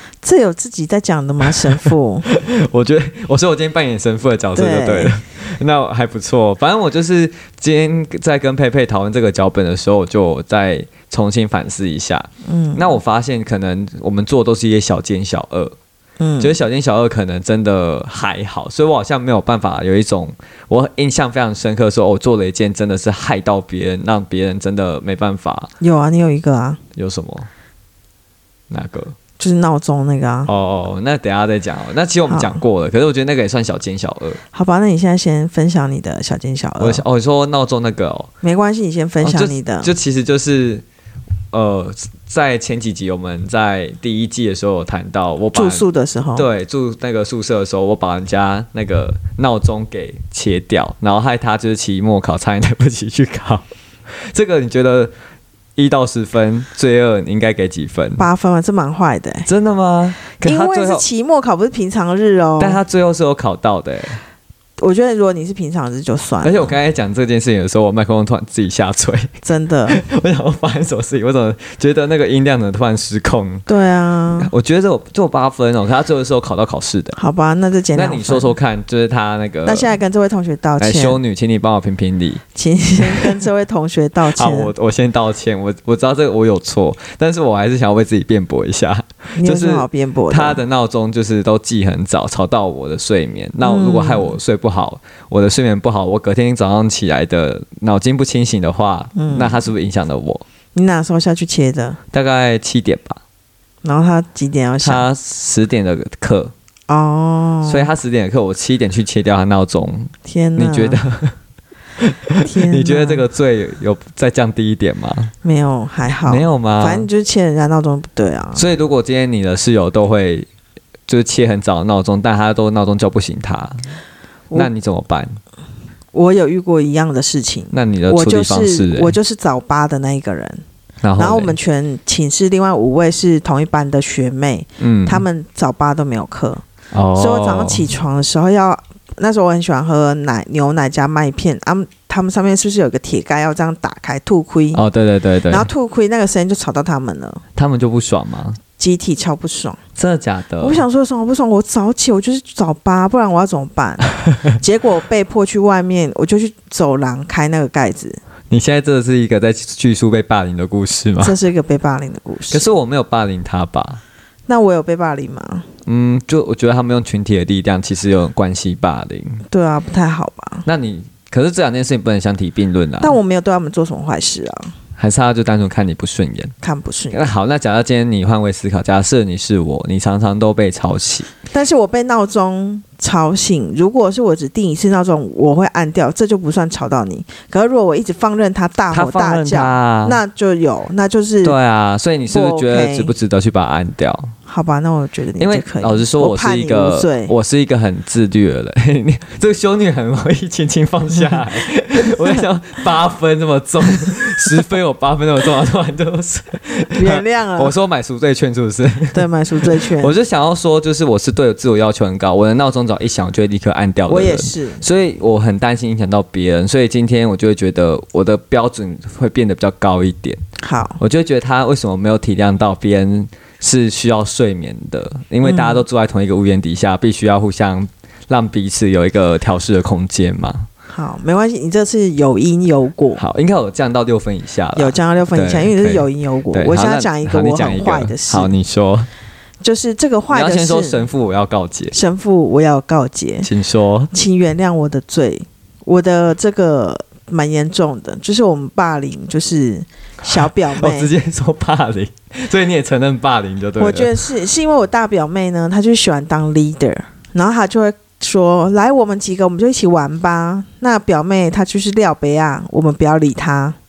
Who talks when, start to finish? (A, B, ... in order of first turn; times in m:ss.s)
0:00.2-0:02.3 A
0:01.7-0:15.8 B
0:04.6-0:05.2 A
0:12.4-0:12.8 A
0:16.2-0:16.6 A
0:16.4-0:25.7 B
0:25.8-0:26.8 A
0:27.0-0:27.5 B
0:28.7-0:29.2 B
0:29.4-0:30.5 A
0:30.5-0:34.4 B
0:32.3-0:32.6 A
0:34.5-0:37.0 A
0:36.8-0:38.3 B
0:38.4-0:39.9 A
0:39.2-0:40.8 B
0:41.5-0:45.8 B
0:45.5-0:46.5 A
0:46.4-0:55.1 B
0:55.8-0:58.2 B
0:58.2-0:59.5 A
0:59.5-1:01.0 B
1:00.4-1:02.8 A
1:02.6-1:04.2 B
1:04.8-1:06.7 A
1:06.4-1:09.3 B
1:09.4-1:10.0 A
1:09.9-1:13.7 B
1:13.7-1:14.5 A
1:14.4-1:17.2 B
1:17.2-1:18.5 A
1:17.9-1:19.9 B
1:19.7-1:21.2 A
1:20.8-1:22.4 B
1:22.6-1:24.7 A
1:23.0-1:23.4 B
1:24.3-1:40.4 B
1:29.4-1:30.6 A
1:33.6-1:34.4 A
1:39.2-1:39.6 A
1:40.8-1:42.0 A
1:42.1-1:43.2 B
1:43.8-1:45.0 A
1:44.8-1:46.5 B
1:46.9-1:47.9 A
1:47.6-1:51.4 B
1:50.2-1:51.0 A
1:52.0-1:55.3 B
1:52.4-1:53.2 A
1:55.4-1:58.7 A
1:56.3-1:57.1 B
1:58.6-2:00.5 B
2:01.1-2:03.8 B
2:04.5-2:05.4 B
2:06.1-2:10.6 A
2:07.7-2:09.2 B
2:11.0-2:11.5 B
2:11.2-2:16.6 A
2:14.8-2:15.2 B
2:16.9-2:17.8 B
2:17.2-2:24.8 A
2:24.7-2:25.7 B
2:25.5-2:27.4 A
2:27.6-2:28.6 B
2:28.8-2:29.8 A
2:30.0-2:30.8 B
2:30.6-2:38.2 A
2:38.5-2:41.4 B
2:41.2-2:42.6 A
2:42.5-2:44.0 B
2:44.5-2:45.6 A
2:45.9-2:49.4 B
2:49.5-2:50.6 A
2:50.6-2:53.2 B
2:53.0-2:54.7 A
2:55.0-2:56.5 B
2:56.6-2:57.2 A
2:57.1-3:01.3 B
3:01.5-3:11.6 A
3:08.9-3:10.2 B
3:11.4-3:14.3 B
3:12.3-3:13.1 A
3:14.5-3:17.3 A
3:15.4-3:40.4 B
3:27.0-3:27.8 A
3:29.1-3:30.1 A
3:34.1-3:34.8 A
3:40.6-3:41.0 A
3:41.0-3:50.7 B
3:45.4-3:45.8 A
3:50.9-3:53.2 A
3:53.2-3:59.1 B
3:54.8-3:58.5 A
3:59.6-4:01.0 A
4:00.3-4:01.9 B
4:01.9-4:03.5 A
4:03.4-4:04.1 B
4:04.1-4:11.1 A
4:10.2-4:14.2 B
4:13.8-4:23.8 A